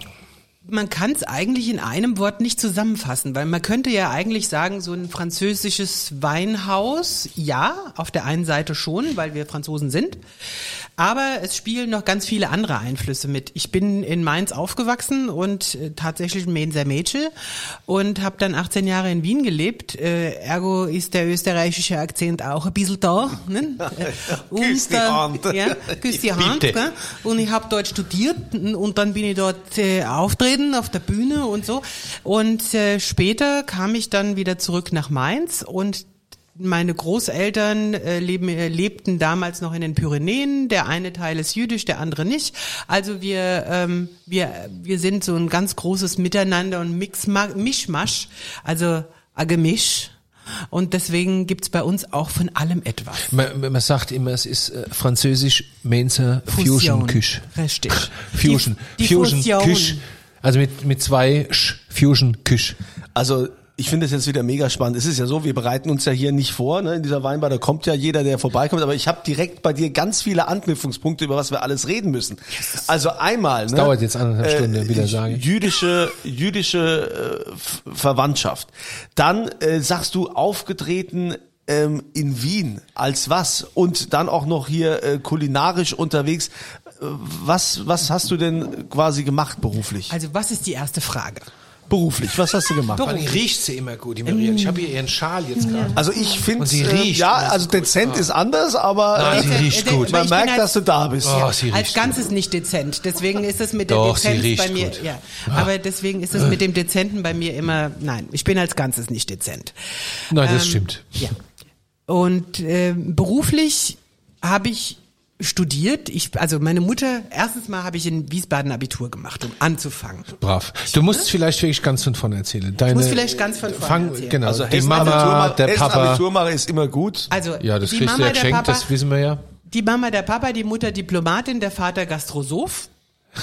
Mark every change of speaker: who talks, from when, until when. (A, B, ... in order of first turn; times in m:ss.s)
0:00.6-0:50.2 A
0:24.0-0:26.0 B
0:26.2-0:26.8 C
0:50.7-0:53.4 A
0:53.3-1:02.8 C
0:56.5-1:00.0 A
1:03.2-1:30.1 B
1:13.7-1:15.4 C
1:30.1-1:31.5 A
1:31.9-1:33.2 B
1:33.0-1:33.4 A
1:33.0-1:36.0 C
1:34.2-1:34.9 A
1:35.6-1:36.4 A
1:35.9-1:41.5 B
1:36.6-1:38.3 C
1:39.1-1:40.2 C
1:39.2-1:51.4 A
1:41.2-1:42.2 C
1:43.9-1:45.7 C
1:50.3-1:51.3 C
1:52.1-2:01.3 A
2:00.4-2:06.2 C
2:02.9-2:04.4 A
2:04.4-2:07.3 B
2:07.3-2:08.9 A
2:07.6-2:09.4 C
2:09.7-2:12.9 A